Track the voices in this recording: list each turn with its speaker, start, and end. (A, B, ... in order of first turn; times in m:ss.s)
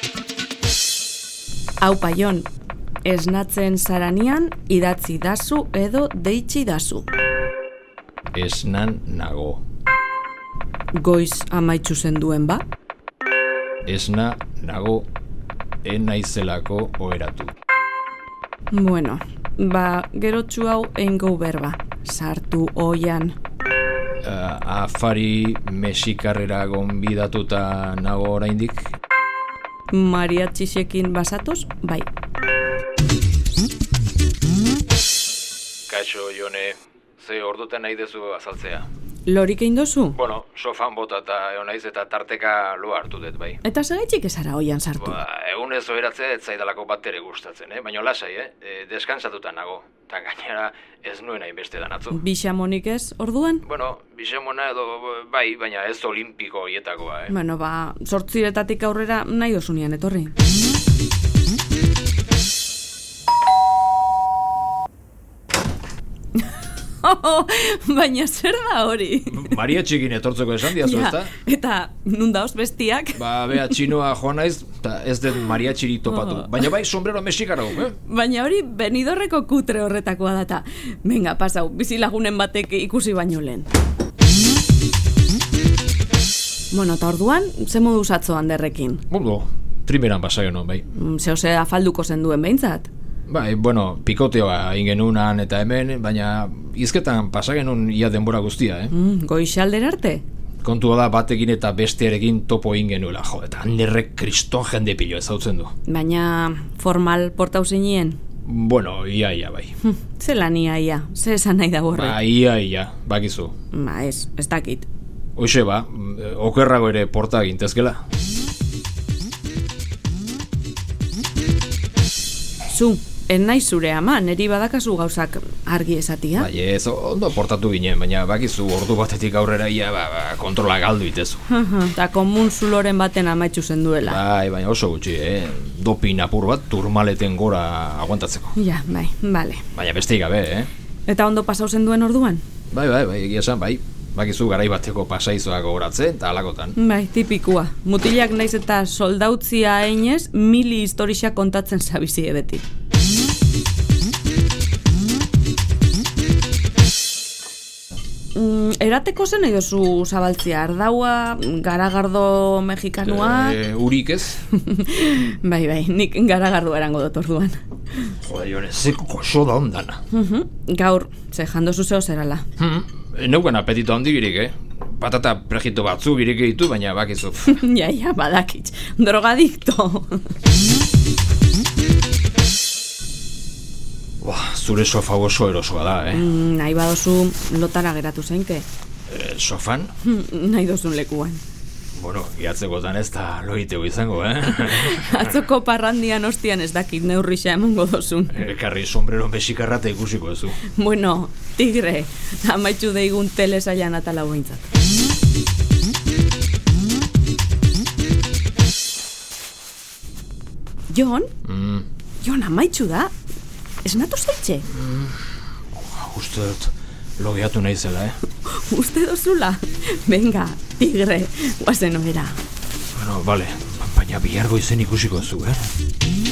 0:01.8-0:02.5 A
0:03.0-0:07.1 A
0:08.3-0:09.6 B
0:10.9-0:12.6 A
0:13.8-0:15.1 B
0:15.8-0:17.5 B
0:18.7-0:23.4 A
0:24.2-0:28.9 B
0:29.9-0:32.1 A
0:35.9-0:38.9 B
0:39.3-0:40.2 A
0:40.1-0:43.6 B
0:43.6-0:45.2 A
0:45.0-0:52.2 B
0:52.1-0:53.6 A
0:53.6-0:57.3 B
0:57.3-1:00.3 A
1:06.4-1:09.6 A
1:09.3-1:11.3 B
1:10.8-1:13.8 A
1:13.2-1:18.0 B
1:16.1-1:16.6 A
1:18.0-1:23.7 A
1:26.7-1:29.0 A
1:29.1-1:30.9 B
1:30.9-1:32.9 A
1:33.3-1:38.9 B
1:38.9-1:40.2 A
1:40.6-1:45.7 B
1:45.9-1:48.2 A
1:48.4-1:49.8 B
1:49.8-1:52.2 A
1:51.9-1:53.5 B
1:53.7-1:54.9 A
1:55.4-1:58.0 B
2:02.7-2:06.5 A
2:06.4-2:11.4 B
2:11.5-2:14.2 A
2:14.1-2:18.6 B
2:18.6-2:19.6 A
2:19.7-2:20.7 B
2:21.1-2:22.4 A
2:22.7-2:26.8 B
2:26.8-2:32.6 A
2:38.3-2:43.6 A
2:43.0-2:44.4 B
2:44.5-2:48.1 A
2:48.2-2:50.0 B
2:50.1-2:52.5 A
2:52.6-2:57.6 B
2:57.5-3:00.3 A
3:04.2-3:06.3 B
3:06.1-3:08.7 A
3:09.1-3:09.9 B
3:10.0-3:11.4 A
3:12.0-3:15.3 B
3:14.5-3:18.4 A
3:18.3-3:20.6 B
3:20.8-3:24.7 A
3:30.9-3:31.3 A
3:31.4-3:31.9 B
3:32.2-3:33.1 A
3:33.8-3:34.7 A
3:34.7-3:35.2 B
3:35.7-3:38.2 B
3:38.4-3:42.4 A
3:43.0-3:45.7 B